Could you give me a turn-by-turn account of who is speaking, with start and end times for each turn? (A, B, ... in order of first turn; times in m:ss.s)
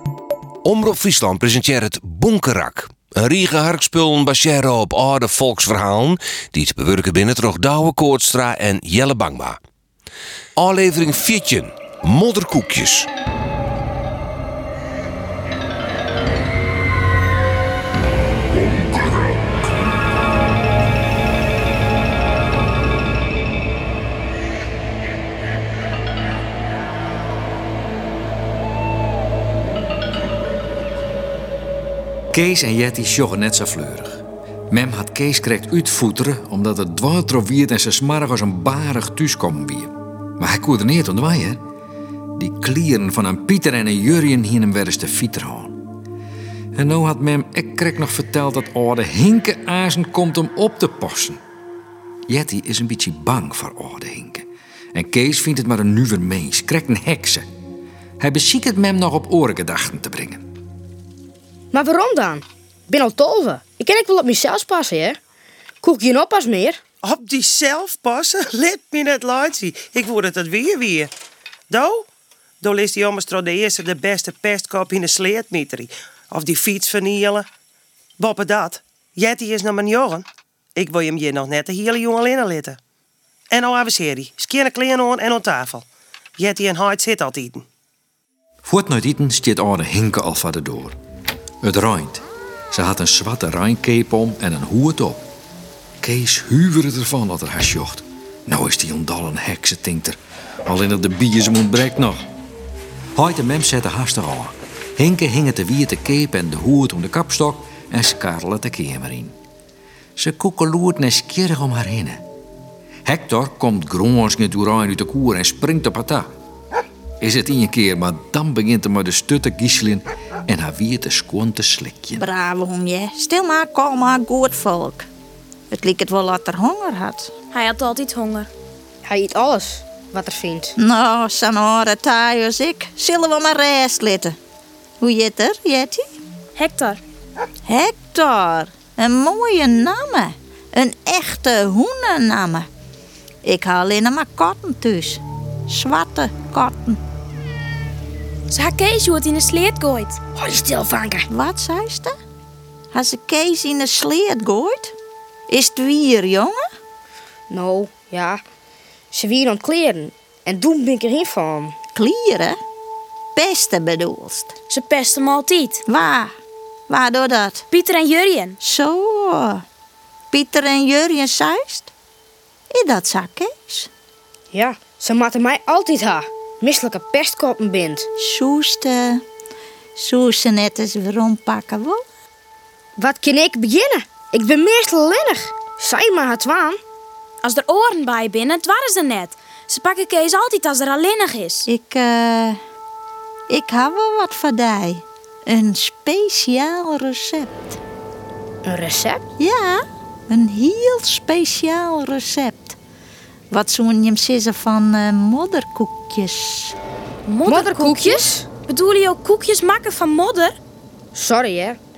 0:00.6-0:09.6 A
0:10.6-0:13.1 A
0:32.3-0:41.6 B
0:42.4-0:45.8 B
0:46.8-0:51.4 B
0:52.3-0:57.5 B
0:58.2-1:00.4 B
1:01.7-1:05.2 C
1:05.8-1:06.8 C
1:07.0-1:11.1 D
1:11.7-1:12.1 D
1:12.6-1:17.5 D
1:18.2-1:22.8 D
1:23.5-1:25.9 D
1:26.4-1:27.6 D
1:28.6-1:31.0 B
1:31.6-1:35.3 B
1:36.0-1:42.2 B
1:43.2-1:49.4 B
1:50.2-1:52.2 B
1:53.0-1:56.3 B
1:57.2-2:02.2 B
2:02.2-2:05.1 E
2:05.7-2:07.3 E
2:07.5-2:08.5 F
2:09.0-2:10.7 C
2:10.8-2:14.4 E
2:15.0-2:16.0 E
2:16.6-2:17.0 F
2:17.7-2:22.7 E
2:23.4-2:27.0 E
2:28.5-2:30.2 F
2:30.4-2:31.3 C
2:31.3-2:32.2 E
2:32.9-2:35.0 E
2:35.5-2:36.6 E
2:37.5-2:38.4 C
2:39.1-2:41.8 C
2:42.0-2:42.6 E
2:43.4-2:44.5 E
2:44.7-2:45.8 F
2:45.9-2:46.3 E
2:46.9-2:47.6 E
2:47.7-2:48.6 F
2:48.6-2:49.6 E
2:50.3-2:51.9 E
2:52.7-2:53.9 E
2:54.5-2:58.1 C
2:58.2-2:59.2 E
3:00.0-3:02.0 E
3:03.0-3:06.8 C
3:07.4-3:11.7 F
3:11.7-3:12.6 E
3:13.5-3:17.8 E
3:18.6-3:19.2 C
3:19.4-3:22.8 E
3:23.5-3:26.8 E
3:27.3-3:30.6 F
3:27.5-3:28.5 C
3:31.1-3:31.8 C